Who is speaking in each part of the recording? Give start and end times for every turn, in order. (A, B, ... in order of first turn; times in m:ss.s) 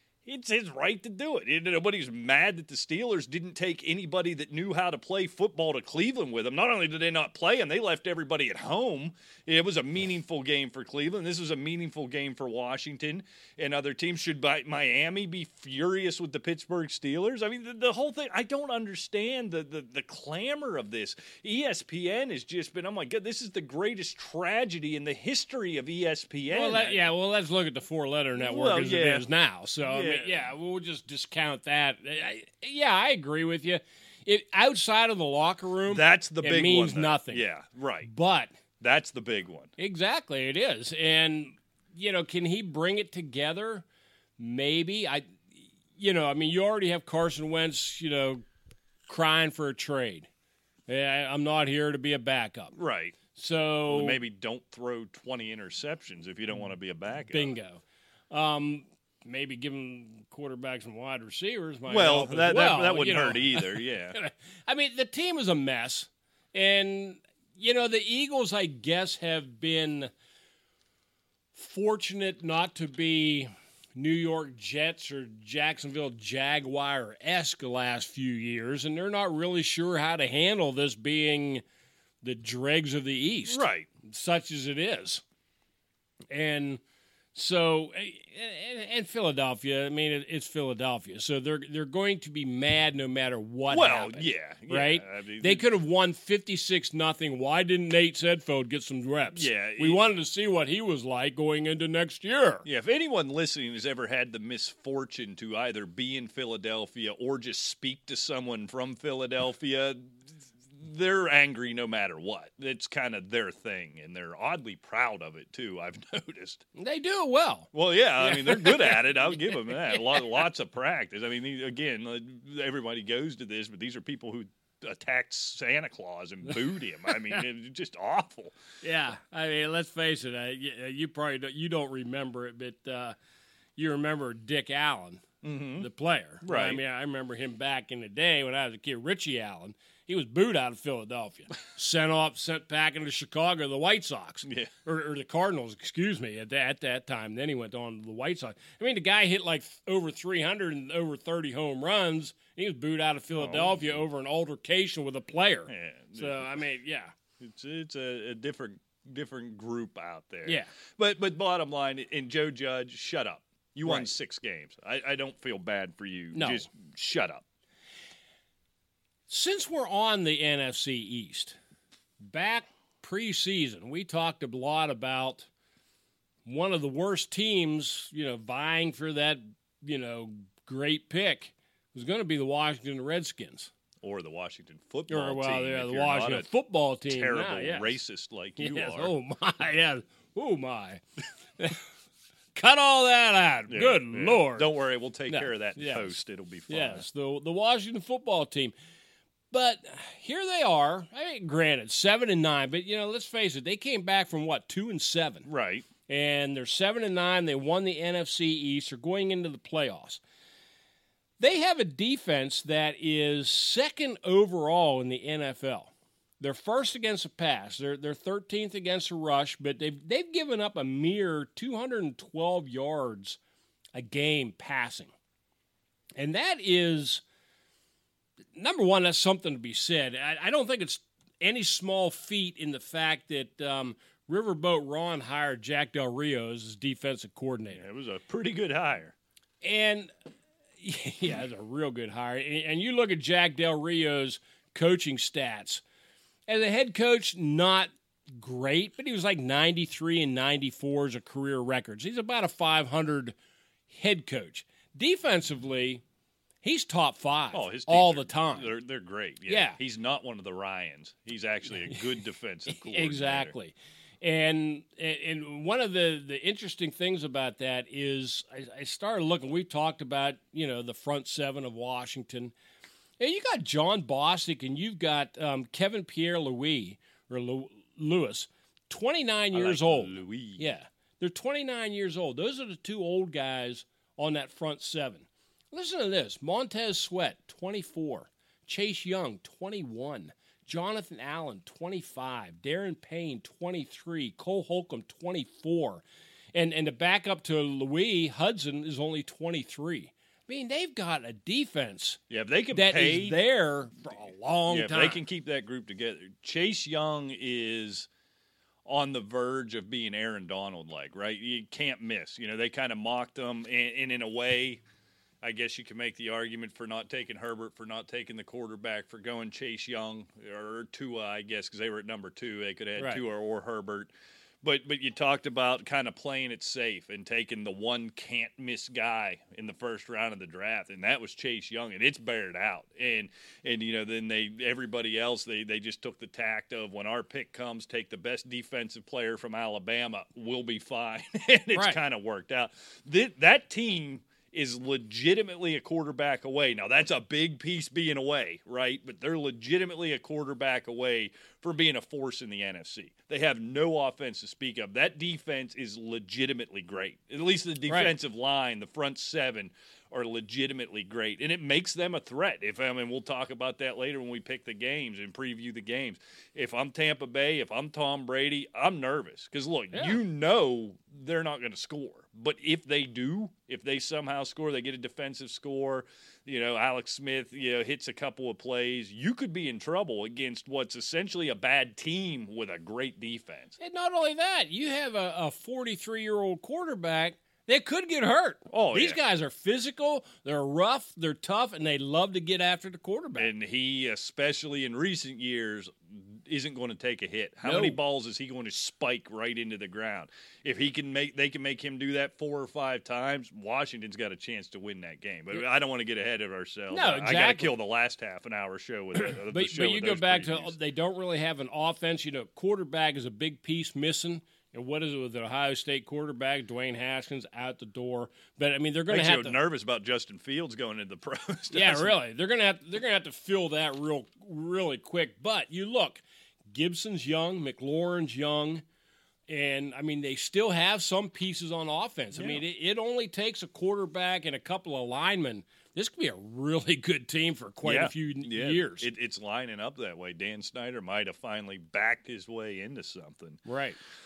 0:00.3-0:27.1 A
0:26.5-0:37.5 B
0:28.4-0:29.3 A
0:29.8-0:30.5 A
0:35.9-0:38.1 A
0:38.0-0:38.5 B
0:38.8-0:39.7 A
0:39.8-0:43.8 B
0:44.4-0:48.4 B
0:49.1-0:50.3 B
0:50.9-0:52.8 B
0:52.8-0:53.2 A
0:53.3-0:54.2 B
0:53.9-0:57.6 A
0:57.3-1:10.1 B
1:01.9-1:04.2 A
1:11.5-1:21.6 B
1:22.2-1:25.2 B
1:23.5-1:23.9 A
1:26.3-1:26.8 B
1:27.3-1:42.6 B
1:33.7-1:35.7 A
1:39.3-1:40.0 A
1:42.6-1:50.1 A
1:50.8-1:56.7 A
1:56.8-1:57.7 B
1:57.7-2:08.6 A
1:58.2-2:00.3 B
2:08.8-2:13.2 B
2:13.8-2:15.3 B
2:15.4-2:15.9 A
2:15.8-2:37.1 B
2:16.4-2:16.8 A
2:33.3-2:34.0 A
2:35.7-2:36.6 A
2:37.4-2:47.4 A
2:40.5-2:40.7 B
2:43.8-2:44.1 B
2:46.3-2:46.7 B
2:49.3-2:51.6 B
2:52.2-2:55.5 B
2:56.4-3:03.7 B
3:04.0-3:06.5 A
3:05.1-3:08.0 B
3:07.1-3:09.1 A
3:08.6-3:11.0 B
3:11.6-3:11.8 B
3:12.5-3:14.7 B
3:13.7-3:17.1 A
3:15.3-3:16.2 B
3:16.7-3:18.7 B
3:19.5-3:25.5 B
3:25.5-3:25.9 A
3:26.1-3:30.2 B
3:31.4-3:43.4 B
3:43.9-3:45.1 B
3:46.2-3:47.2 B
3:48.5-3:57.8 B
3:57.7-3:59.2 A
3:59.6-4:00.1 B
4:00.8-4:05.8 B
4:06.5-4:13.4 B
4:13.9-4:16.0 B
4:16.6-4:18.7 B
4:17.5-4:23.5 A
4:19.5-4:19.8 B
4:22.7-4:32.5 B
4:33.2-5:02.2 B
4:39.5-4:40.6 A
5:02.3-5:03.4 A
5:02.7-5:05.2 B
5:04.7-5:08.1 A
5:08.9-5:14.8 A
5:15.4-5:24.1 A
5:23.0-5:23.2 B
5:24.6-6:23.8 A
5:41.7-5:42.0 B
5:57.9-5:58.1 B
6:09.9-6:10.2 B
6:23.8-6:33.5 B
6:28.7-6:29.2 A
6:33.4-6:50.7 A
6:37.6-6:38.0 B
6:46.9-6:47.7 B
6:49.2-6:59.6 B
6:59.1-7:02.2 A
7:01.7-7:08.8 B
7:09.5-7:19.1 B
7:12.4-7:12.6 A
7:17.8-7:23.6 A
7:23.7-7:24.0 B